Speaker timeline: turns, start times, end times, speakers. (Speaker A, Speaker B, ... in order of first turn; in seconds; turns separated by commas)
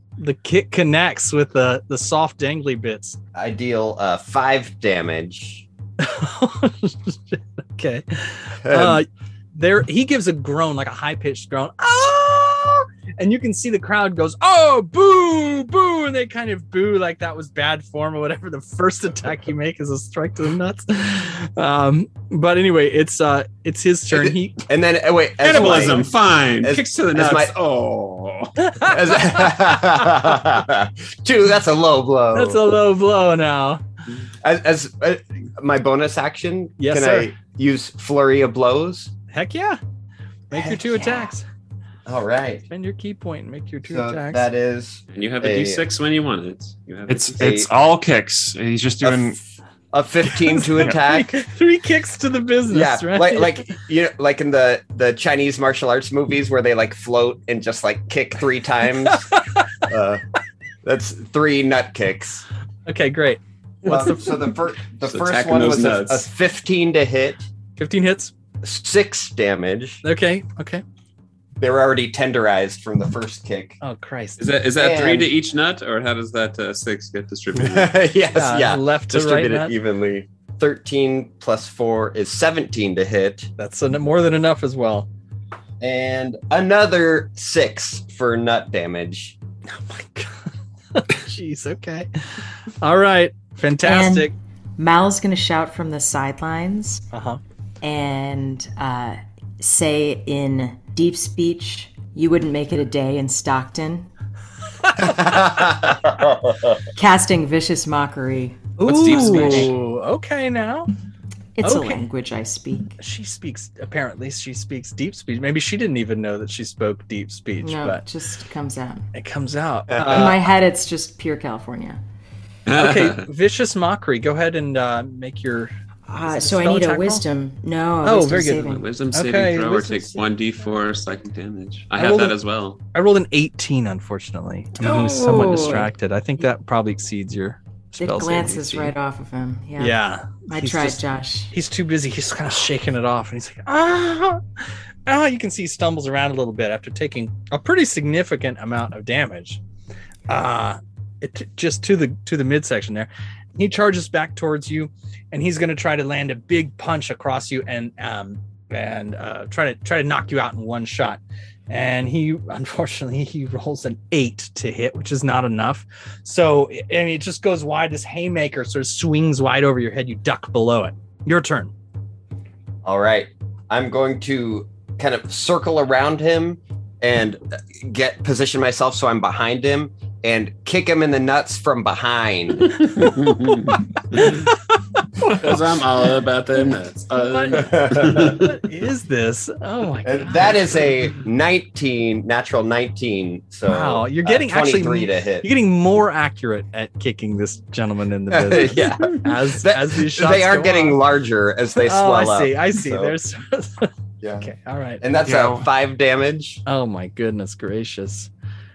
Speaker A: 0.2-3.2, Speaker B: 3.3-5.7, Speaker A: 6.0-24.6, Speaker B: 8.6-9.0, Speaker B: 24.1-27.5, Speaker C: 25.4-28.5, Speaker A: 25.5-26.0, Speaker A: 28.6-29.6, Speaker B: 28.9-32.6, Speaker A: 32.3-33.8, Speaker B: 34.4-39.1, Speaker A: 36.8-37.3, Speaker A: 39.3-39.8, Speaker A: 40.5-41.5, Speaker B: 40.5-41.3, Speaker B: 42.0-42.6, Speaker A: 42.7-44.5, Speaker B: 43.9-45.9, Speaker C: 45.1-47.3, Speaker D: 47.1-49.4, Speaker B: 47.3-47.7, Speaker B: 49.0-49.4, Speaker B: 49.9-51.3, Speaker A: 50.6-53.6, Speaker B: 52.7-60.2, Speaker A: 59.1-59.6, Speaker B: 60.8-62.5, Speaker A: 62.9-64.4, Speaker B: 63.9-67.5, Speaker C: 63.9-64.1, Speaker C: 65.0-66.2, Speaker A: 67.8-68.3, Speaker B: 68.6-70.0, Speaker A: 70.0-70.8, Speaker B: 71.6-73.8, Speaker A: 73.8-74.4, Speaker C: 74.4-77.9, Speaker B: 74.8-75.3, Speaker B: 77.5-83.5, Speaker A: 78.3-79.7, Speaker A: 83.6-85.1, Speaker B: 85.8-89.4, Speaker A: 89.7-94.3, Speaker E: 93.8-97.0, Speaker A: 97.1-97.4, Speaker E: 97.8-104.1, Speaker A: 104.8-105.9, Speaker B: 105.0-106.8, Speaker E: 107.0-109.7, Speaker A: 108.8-110.9, Speaker C: 108.9-109.7, Speaker E: 111.6-112.9, Speaker A: 111.6-112.1, Speaker A: 113.0-118.0, Speaker E: 117.6-119.1, Speaker A: 119.1-120.4, Speaker B: 119.9-120.4, Speaker E: 120.1-122.0, Speaker C: 122.7-123.2, Speaker A: 122.8-127.2, Speaker E: 126.1-128.8, Speaker A: 128.0-130.2, Speaker C: 128.6-132.8, Speaker A: 132.0-132.4, Speaker A: 132.9-138.9, Speaker E: 134.8-135.9, Speaker E: 138.0-141.5, Speaker A: 139.8-149.6, Speaker A: 150.3-171.7, Speaker B: 172.8-182.9, Speaker C: 182.9-184.4, Speaker A: 184.2-185.6, Speaker C: 185.2-188.5, Speaker A: 187.1-190.9, Speaker B: 187.6-188.4, Speaker B: 190.0-195.5, Speaker A: 193.7-201.0, Speaker B: 198.3-203.1, Speaker A: 201.8-205.0, Speaker B: 204.2-206.6, Speaker D: 205.2-205.7, Speaker A: 206.7-208.3